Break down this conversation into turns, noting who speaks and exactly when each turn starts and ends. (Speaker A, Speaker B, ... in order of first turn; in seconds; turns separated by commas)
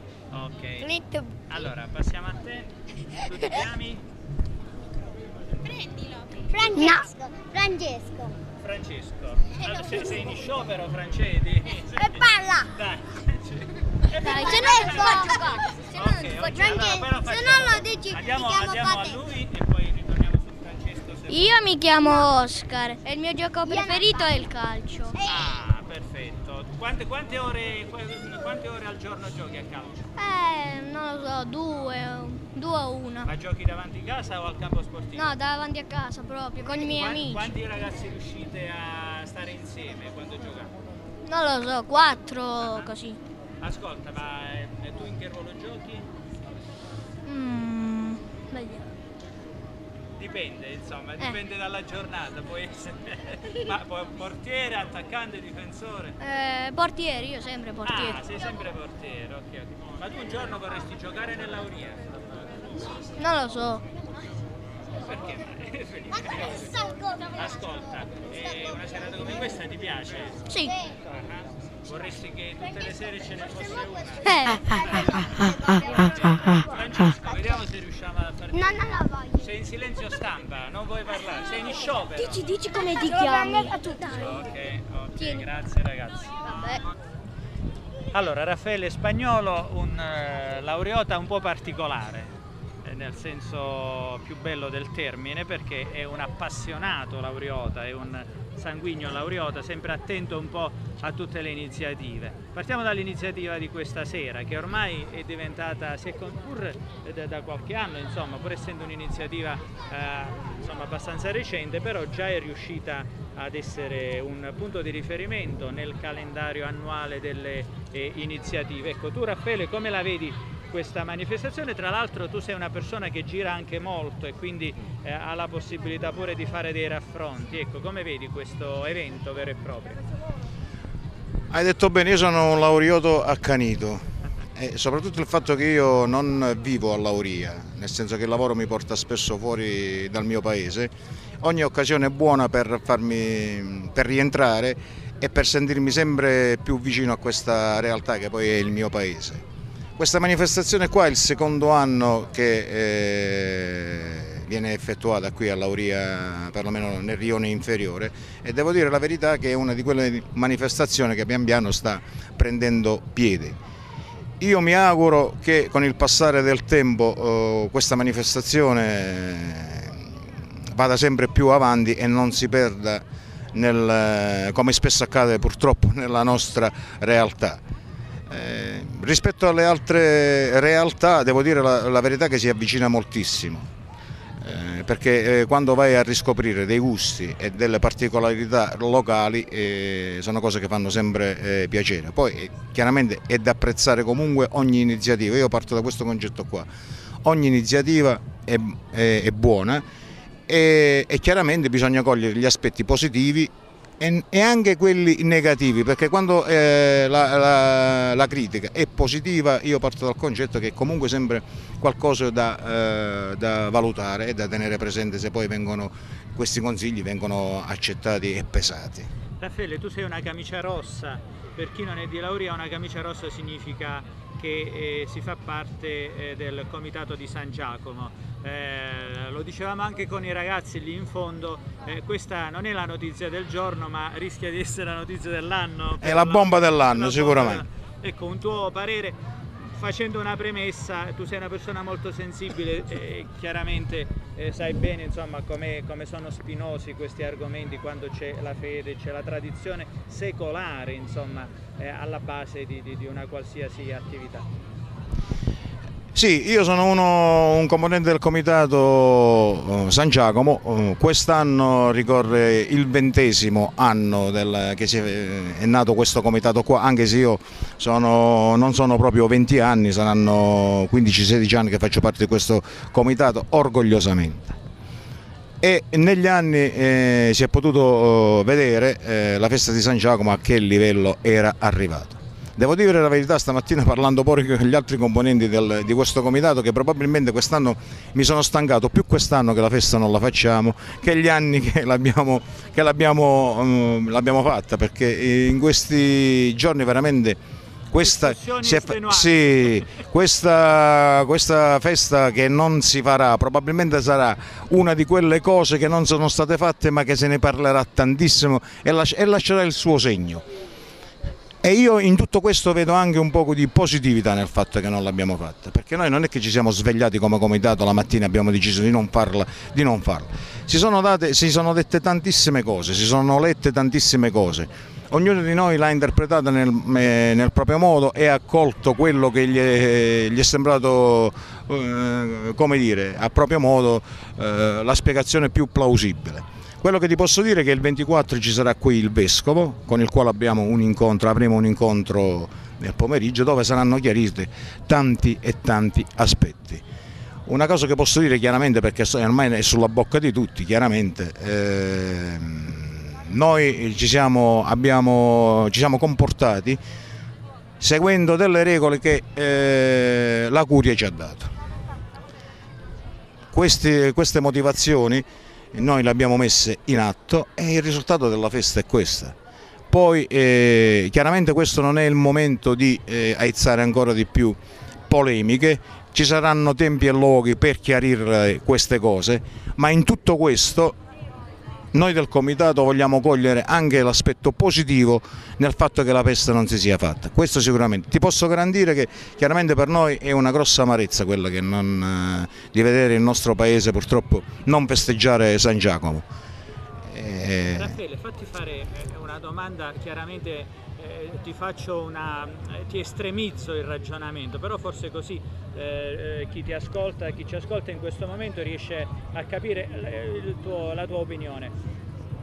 Speaker A: 0.3-0.9, Speaker B: 0.8-1.3, Speaker A: 1.5-4.0, Speaker B: 6.5-8.3, Speaker A: 8.6-21.6, Speaker B: 9.7-10.2, Speaker B: 12.0-12.7, Speaker B: 14.2-15.6, Speaker C: 14.2-16.5, Speaker B: 16.3-19.2, Speaker C: 17.3-17.9, Speaker C: 21.3-25.2, Speaker B: 23.6-24.5, Speaker A: 25.2-30.1, Speaker C: 30.2-33.3, Speaker A: 33.2-35.4, Speaker C: 35.1-37.5, Speaker A: 36.6-40.7, Speaker C: 41.3-43.2, Speaker A: 42.6-42.9, Speaker A: 43.6-46.1, Speaker C: 47.3-48.9, Speaker A: 50.2-56.2, Speaker C: 56.2-58.2, Speaker A: 57.8-62.2, Speaker C: 63.2-63.8, Speaker A: 65.0-70.5, Speaker C: 70.5-70.8, Speaker A: 71.0-74.3, Speaker C: 74.3-75.3, Speaker B: 74.7-75.9, Speaker A: 75.8-78.8, Speaker B: 78.5-79.5, Speaker A: 79.4-82.5, Speaker C: 82.2-84.4, Speaker B: 82.7-84.3, Speaker A: 84.1-86.9, Speaker C: 85.2-85.5, Speaker C: 86.5-86.8, Speaker A: 88.1-92.3, Speaker A: 92.8-130.0, Speaker D: 131.5-134.0, Speaker D: 134.6-149.4, Speaker D: 150.0-163.6, Speaker D: 164.4-170.0, Speaker D: 170.8-177.6, Speaker D: 178.3-183.7, Speaker D: 184.4-196.7, Speaker D: 197.2-199.8, Speaker D: 200.5-219.1, Speaker A: 219.4-239.2, Speaker D: 236.0-237.6, Speaker A: 239.8-254.5, Speaker D: 256.1-274.6, Speaker D: 275.6-297.4, Speaker D: 297.9-310.4, Speaker A: 298.0-299.8, Speaker D: 311.6-346.8, Speaker D: 347.5-356.8, Speaker D: 357.8-361.5, Speaker D: 363.5-369.4, Speaker D: 369.9-380.9, Speaker D: 381.9-396.3, Speaker D: 397.1-397.9, Speaker A: 397.7-411.7